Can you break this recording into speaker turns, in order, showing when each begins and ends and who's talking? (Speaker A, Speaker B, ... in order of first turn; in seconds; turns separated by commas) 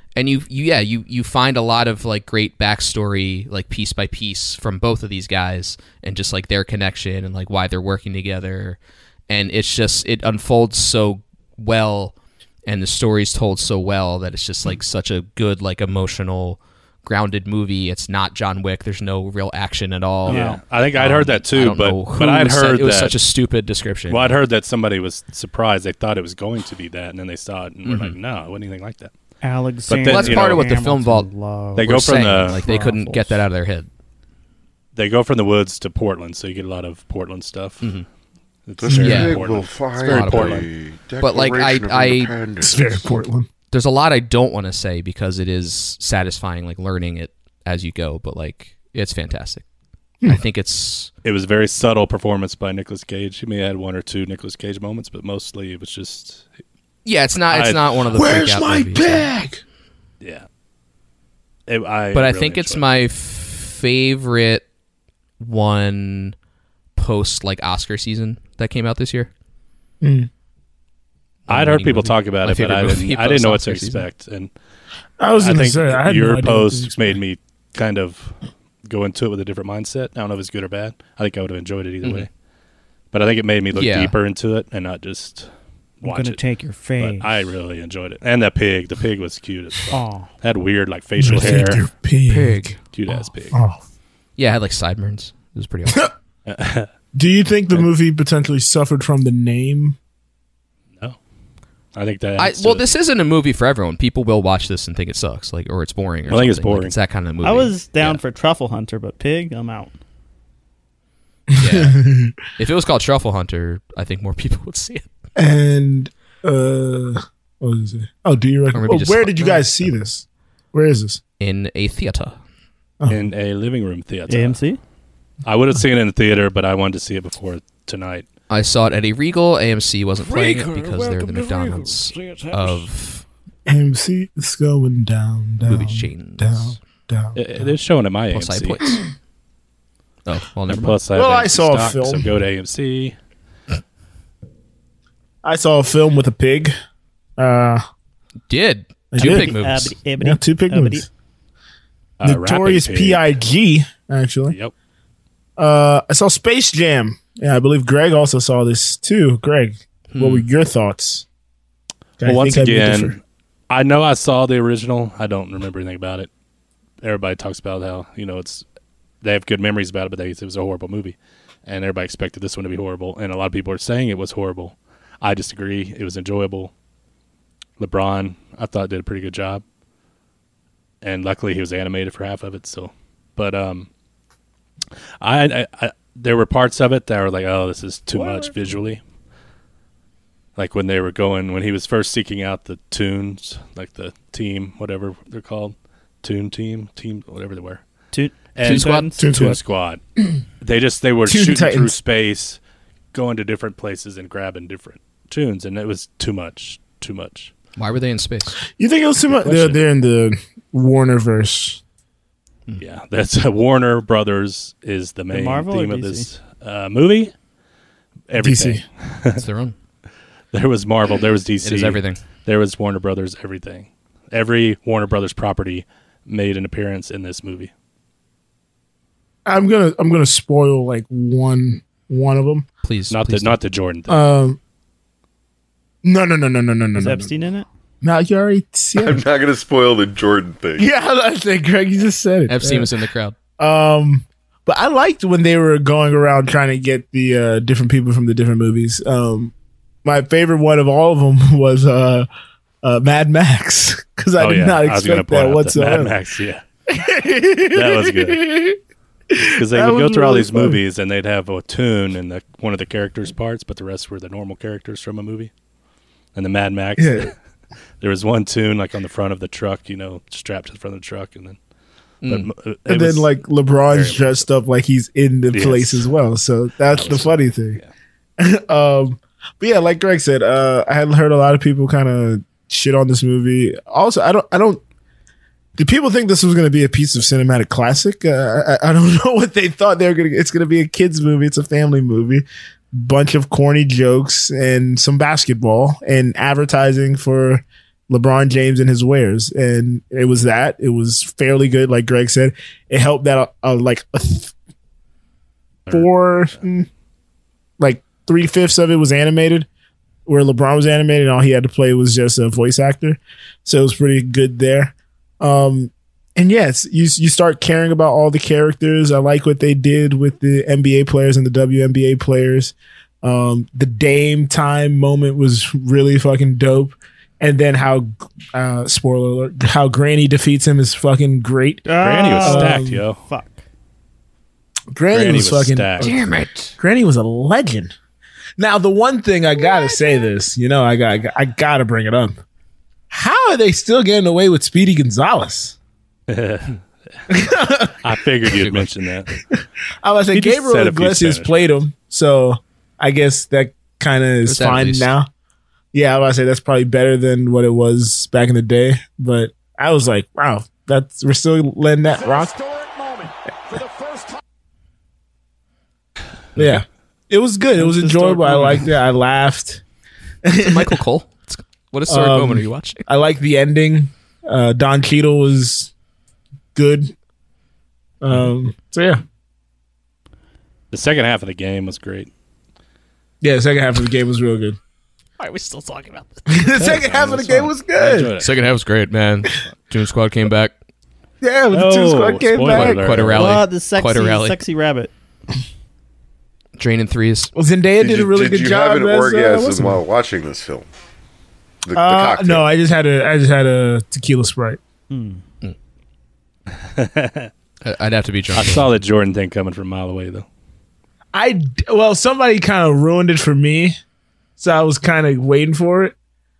Speaker A: 0.1-8.8, Speaker A: 9.3-12.1, Speaker A: 12.7-24.4, Speaker B: 20.2-23.2, Speaker C: 20.3-20.5, Speaker B: 24.1-29.1, Speaker A: 27.8-28.2, Speaker C: 29.4-33.4, Speaker B: 29.9-30.6, Speaker A: 30.0-33.9, Speaker B: 31.8-32.6, Speaker B: 34.9-37.8, Speaker A: 37.8-38.0, Speaker B: 38.7-40.7, Speaker D: 38.8-43.2, Speaker E: 38.9-39.4, Speaker A: 39.0-39.4, Speaker A: 40.0-40.7, Speaker A: 41.2-42.3, Speaker E: 42.6-43.5, Speaker A: 43.7-49.6, Speaker A: 50.2-51.1, Speaker B: 51.2-56.5, Speaker A: 57.0-59.3, Speaker B: 57.5-57.8, Speaker E: 58.1-59.6, Speaker B: 61.7-62.8, Speaker A: 62.1-64.6, Speaker A: 65.4-66.3, Speaker A: 67.0-69.3, Speaker E: 70.0-70.3, Speaker A: 71.5-74.1, Speaker B: 71.5-74.5, Speaker E: 75.2-77.2, Speaker B: 75.4-78.3, Speaker B: 78.9-82.3, Speaker B: 83.1-85.5, Speaker A: 83.7-84.1, Speaker B: 86.0-86.4, Speaker C: 86.0-87.5, Speaker B: 87.0-91.8, Speaker C: 89.9-90.3, Speaker E: 91.2-92.8, Speaker A: 92.3-92.8, Speaker B: 92.9-93.6, Speaker E: 93.5-93.8, Speaker A: 94.4-96.1, Speaker B: 96.5-96.9, Speaker E: 97.1-100.0, Speaker B: 101.9-102.9, Speaker A: 102.4-108.2, Speaker B: 106.3-107.0, Speaker C: 107.4-109.9, Speaker E: 111.5-112.3, Speaker A: 111.6-112.0, Speaker A: 112.6-115.1, Speaker E: 115.3-121.2, Speaker A: 118.7-119.8, Speaker A: 121.4-122.3, Speaker E: 123.0-123.2, Speaker B: 123.1-124.6, Speaker C: 124.3-124.8, Speaker B: 125.4-128.3, Speaker A: 128.5-133.2, Speaker E: 130.2-132.7, Speaker E: 133.7-137.7, Speaker A: 135.6-136.8, Speaker B: 137.3-138.8, Speaker A: 138.3-139.0, Speaker A: 140.2-141.0, Speaker B: 140.7-143.1, Speaker E: 141.1-142.3, Speaker E: 145.4-146.7, Speaker E: 147.4-147.8, Speaker A: 148.5-150.0, Speaker E: 149.1-149.5, Speaker C: 149.2-151.1, Speaker E: 150.2-151.1, Speaker B: 152.2-153.4, Speaker E: 152.2-154.6, Speaker E: 155.6-161.2, Speaker A: 160.1-160.5, Speaker E: 162.2-163.2, Speaker B: 162.2-166.3, Speaker B: 167.0-168.6, Speaker B: 169.2-176.7, Speaker B: 177.8-179.6, Speaker B: 181.0-183.9, Speaker B: 185.2-189.0, Speaker B: 190.6-197.8, Speaker C: 198.1-199.4, Speaker B: 198.5-200.0, Speaker A: 198.6-199.1, Speaker E: 199.2-199.6, Speaker B: 200.6-202.6, Speaker E: 201.2-201.9, Speaker B: 203.1-207.5, Speaker A: 207.8-208.6, Speaker E: 208.7-211.8, Speaker B: 209.4-209.8, Speaker B: 212.8-217.3, Speaker C: 215.3-216.3, Speaker B: 218.3-219.4, Speaker E: 218.4-218.8, Speaker A: 219.4-219.7, Speaker B: 220.5-227.7, Speaker A: 221.6-222.2, Speaker E: 229.4-232.7, Speaker A: 232.8-233.6, Speaker B: 233.1-234.3, Speaker E: 234.1-234.6, Speaker E: 236.0-237.3, Speaker C: 236.9-237.7, Speaker E: 238.0-239.2, Speaker D: 239.0-240.8, Speaker E: 240.8-242.9, Speaker A: 242.5-243.3, Speaker E: 243.6-249.5, Speaker E: 250.0-252.3, Speaker E: 252.8-256.1, Speaker B: 254.4-256.6, Speaker E: 256.9-258.8, Speaker B: 257.7-258.4, Speaker E: 259.3-260.8, Speaker B: 259.6-265.5, Speaker B: 266.3-267.3, Speaker E: 267.0-267.3, Speaker B: 268.0-271.6, Speaker A: 272.2-272.5, Speaker B: 272.2-273.3, Speaker E: 272.9-277.8, Speaker B: 273.9-274.4, Speaker B: 275.5-276.1, Speaker B: 276.9-277.9, Speaker E: 278.4-284.8, Speaker E: 285.8-304.5, Speaker E: 305.9-306.9, Speaker E: 307.8-309.7, Speaker E: 310.2-333.0, Speaker C: 331.9-333.6, Speaker B: 332.0-333.2, Speaker E: 334.9-336.1, Speaker B: 335.1-336.1, Speaker A: 336.0-336.7, Speaker E: 336.8-337.9, Speaker E: 338.6-342.4, Speaker E: 343.1-345.8, Speaker B: 346.3-346.8, Speaker E: 347.3-348.1, Speaker B: 348.0-349.3, Speaker A: 348.6-348.9, Speaker E: 349.5-355.3, Speaker B: 350.3-351.7, Speaker A: 354.4-355.1, Speaker E: 355.9-362.5, Speaker E: 366.6-369.8, Speaker C: 367.8-368.9, Speaker E: 370.4-371.0, Speaker A: 370.6-373.1, Speaker E: 372.1-375.9, Speaker E: 376.7-377.1, Speaker E: 378.2-379.2, Speaker B: 380.9-382.3, Speaker E: 383.4-384.8, Speaker A: 385.4-386.6, Speaker E: 386.5-388.3, Speaker B: 386.7-388.5, Speaker A: 388.4-390.7, Speaker E: 391.4-393.2, Speaker B: 391.7-393.6, Speaker A: 392.7-394.6, Speaker C: 393.3-395.1, Speaker A: 396.8-397.5, Speaker E: 397.5-400.0, Speaker D: 398.0-400.9, Speaker D: 401.8-402.6, Speaker E: 401.9-404.8, Speaker C: 405.1-405.4, Speaker B: 406.9-407.5, Speaker A: 407.8-408.9, Speaker B: 408.5-410.4, Speaker E: 411.3-414.0, Speaker E: 414.6-416.1